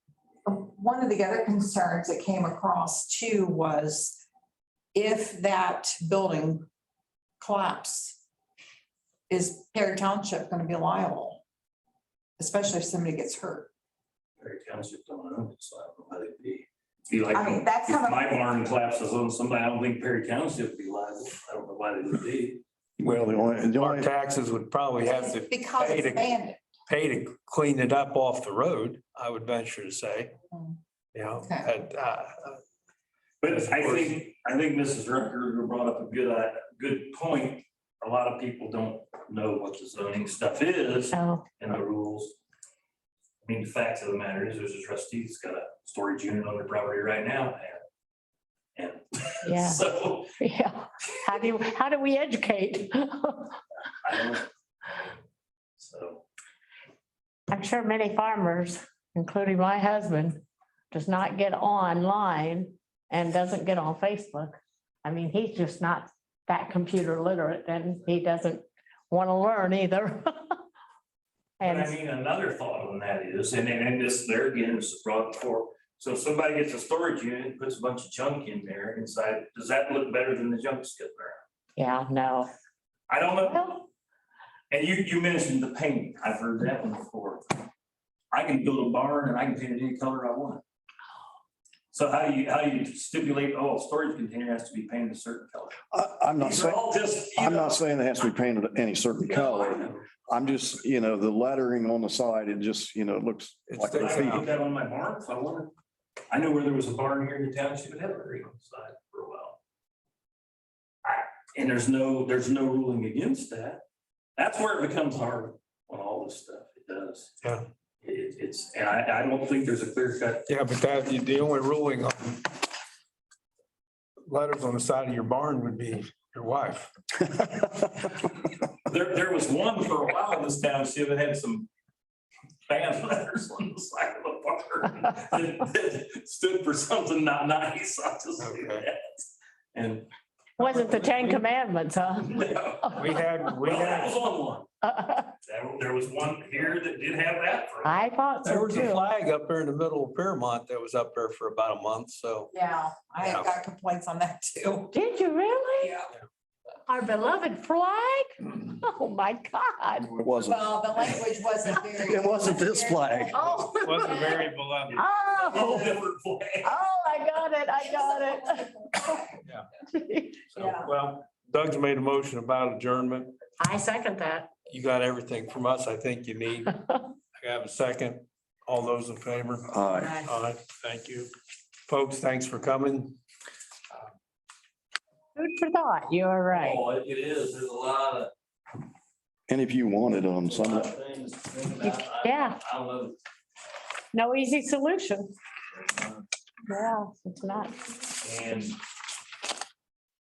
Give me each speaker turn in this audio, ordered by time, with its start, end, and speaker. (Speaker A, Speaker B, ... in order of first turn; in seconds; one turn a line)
Speaker A: 0.4-4.2
Speaker A: 4.9-6.7
Speaker A: 7.4-8.2
Speaker A: 9.3-11.4
Speaker A: 12.4-13.7
Speaker B: 14.4-22.6
Speaker A: 17.3-18.2
Speaker C: 23.0-24.1
Speaker D: 23.7-26.3
Speaker A: 25.1-26.6
Speaker D: 26.9-30.3
Speaker A: 30.5-30.8
Speaker D: 31.1-32.6
Speaker A: 31.4-31.7
Speaker B: 33.4-42.4
Speaker D: 33.5-34.2
Speaker E: 41.1-41.5
Speaker B: 43.4-47.8
Speaker B: 48.8-50.4
Speaker E: 49.4-49.8
Speaker E: 50.4-53.6
Speaker B: 54.0-54.5
Speaker B: 55.8-56.2
Speaker E: 57.5-70.6
Speaker E: 71.6-71.9
Speaker B: 71.6-81.4
Speaker E: 81.8-82.5
Speaker B: 83.1-83.9
Speaker E: 83.4-83.7
Speaker B: 84.7-87.5
Speaker B: 88.3-90.6
Speaker B: 91.9-95.8
Speaker C: 95.9-96.8
Speaker B: 96.4-97.8
Speaker C: 97.3-104.4
Speaker B: 99.2-100.1
Speaker D: 103.7-104.5
Speaker B: 103.9-105.7
Speaker B: 106.3-109.6
Speaker B: 111.0-113.8
Speaker B: 114.4-117.3
Speaker B: 118.0-120.5
Speaker D: 120.5-122.5
Speaker D: 124.3-126.9
Speaker B: 128.8-131.7
Speaker B: 132.7-140.1
Speaker D: 138.4-138.8
Speaker D: 140.6-141.4
Speaker E: 140.6-143.2
Speaker B: 142.3-143.0
Speaker D: 142.9-144.2
Speaker B: 143.6-144.7
Speaker E: 144.8-145.3
Speaker B: 145.4-148.0
Speaker E: 147.8-149.0
Speaker D: 148.4-152.5
Speaker A: 152.5-155.0
Speaker D: 153.2-153.6
Speaker E: 154.9-156.0
Speaker A: 155.8-156.1
Speaker E: 156.9-160.2
Speaker C: 160.2-160.6
Speaker A: 160.3-163.5
Speaker C: 162.0-163.4
Speaker E: 163.3-164.4
Speaker D: 163.5-165.1
Speaker E: 164.9-166.0
Speaker B: 165.4-166.7
Speaker E: 166.6-169.2
Speaker E: 169.9-170.5
Speaker D: 170.5-173.3
Speaker A: 170.5-170.9
Speaker E: 173.6-174.5
Speaker D: 174.7-176.8
Speaker D: 177.4-179.7
Speaker C: 179.7-180.2
Speaker E: 179.9-180.2
Speaker D: 180.2-181.3
Speaker D: 181.9-183.2
Speaker E: 185.3-186.8
Speaker B: 186.5-188.3
Speaker C: 189.5-190.9
Speaker B: 190.5-193.1
Speaker E: 191.8-192.6
Speaker E: 194.1-195.3
Speaker B: 195.8-196.2
Speaker E: 196.7-197.7
Speaker B: 198.2-198.8